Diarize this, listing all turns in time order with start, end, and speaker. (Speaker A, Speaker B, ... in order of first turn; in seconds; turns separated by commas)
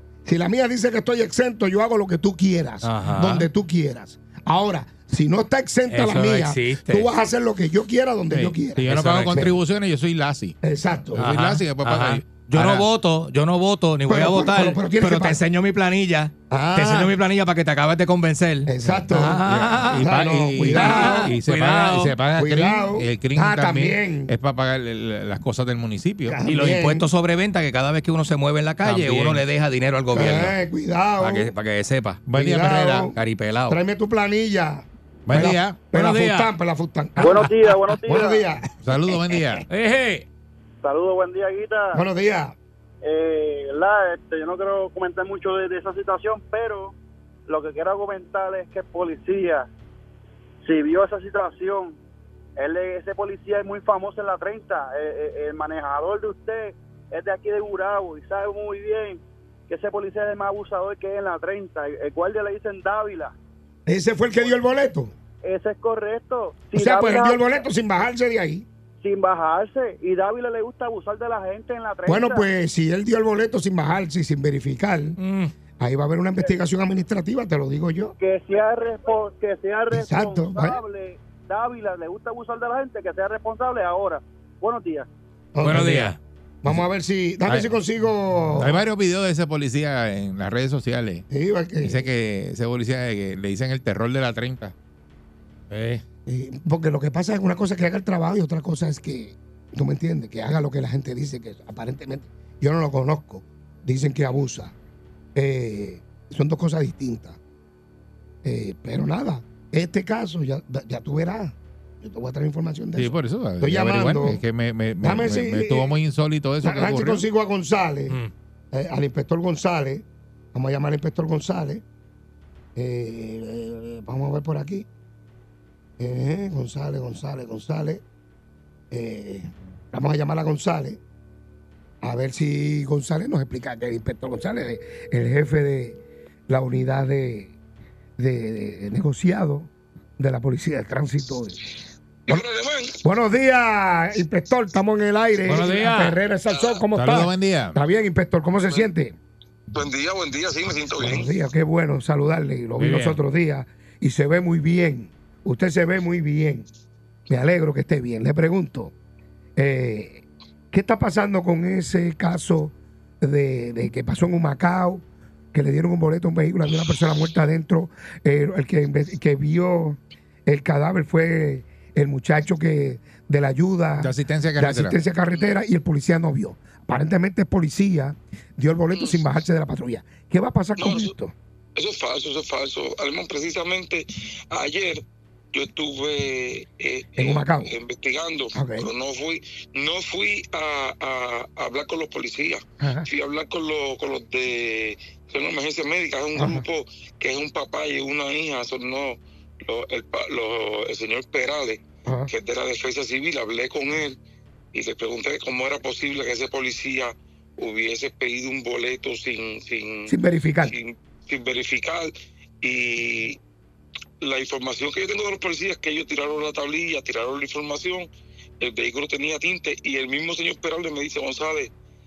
Speaker A: 0.2-9.5, Speaker B: 2.8-3.5, Speaker B: 5.9-7.1, Speaker C: 8.3-10.6, Speaker B: 8.8-9.6, Speaker A: 10.6-11.3, Speaker C: 11.1-12.9, Speaker B: 11.2-20.1, Speaker A: 14.1-15.4, Speaker A: 16.5-17.2, Speaker A: 18.7-21.4, Speaker C: 19.1-26.4, Speaker B: 20.6-22.2, Speaker A: 22.4-24.3, Speaker A: 26.3-27.1, Speaker B: 26.4-30.6, Speaker C: 28.8-29.4, Speaker A: 30.1-31.5, Speaker B: 31.2-32.2, Speaker C: 32.3-33.1, Speaker A: 32.3-33.1, Speaker B: 33.1-33.8, Speaker A: 33.7-39.4, Speaker C: 35.3-35.9, Speaker B: 35.4-36.5, Speaker D: 37.2-38.5, Speaker B: 37.2-37.5, Speaker C: 38.8-39.6, Speaker B: 39.7-40.3, Speaker D: 40.8-42.0, Speaker A: 41.9-42.6, Speaker D: 43.0-46.9, Speaker D: 47.5-49.7, Speaker D: 50.6-52.0, Speaker D: 52.6-63.3, Speaker A: 63.9-65.1, Speaker D: 65.4-67.6, Speaker A: 66.8-68.7, Speaker D: 69.0-72.5, Speaker A: 72.1-75.2, Speaker B: 75.2-75.5, Speaker A: 75.8-78.1, Speaker D: 78.2-85.1, Speaker A: 79.9-80.8, Speaker A: 85.5-86.1, Speaker B: 85.6-86.2, Speaker C: 85.7-86.1, Speaker A: 86.6-88.8, Speaker C: 87.5-87.7, Speaker C: 88.6-91.2, Speaker A: 91.3-92.1, Speaker C: 91.8-94.7, Speaker B: 95.7-96.0, Speaker A: 96.3-104.7, Speaker A: 105.3-107.4, Speaker A: 108.4-114.4, Speaker C: 113.0-117.2, Speaker A: 115.0-116.0, Speaker A: 116.6-118.2, Speaker A: 118.7-121.8, Speaker A: 122.8-124.9, Speaker A: 126.0-128.0, Speaker A: 128.9-131.0, Speaker A: 132.0-137.6, Speaker A: 138.2-141.6, Speaker E: 142.3-143.0, Speaker A: 143.0-149.2, Speaker B: 145.5-146.2, Speaker E: 146.5-146.8, Speaker C: 146.9-147.8, Speaker E: 149.7-151.3, Speaker A: 151.0-156.7, Speaker C: 152.8-153.2, Speaker A: 157.3-158.9, Speaker A: 159.6-181.3, Speaker C: 174.0-175.0, Speaker E: 178.9-179.3, Speaker E: 180.8-181.1, Speaker E: 181.8-185.0, Speaker E: 185.5-204.2, Speaker A: 187.2-187.7, Speaker A: 188.5-188.9, Speaker A: 192.8-193.1, Speaker A: 196.4-196.6, Speaker A: 202.1-202.3, Speaker E: 204.7-213.4, Speaker A: 210.1-210.7, Speaker E: 214.2-218.1, Speaker E: 218.6-221.7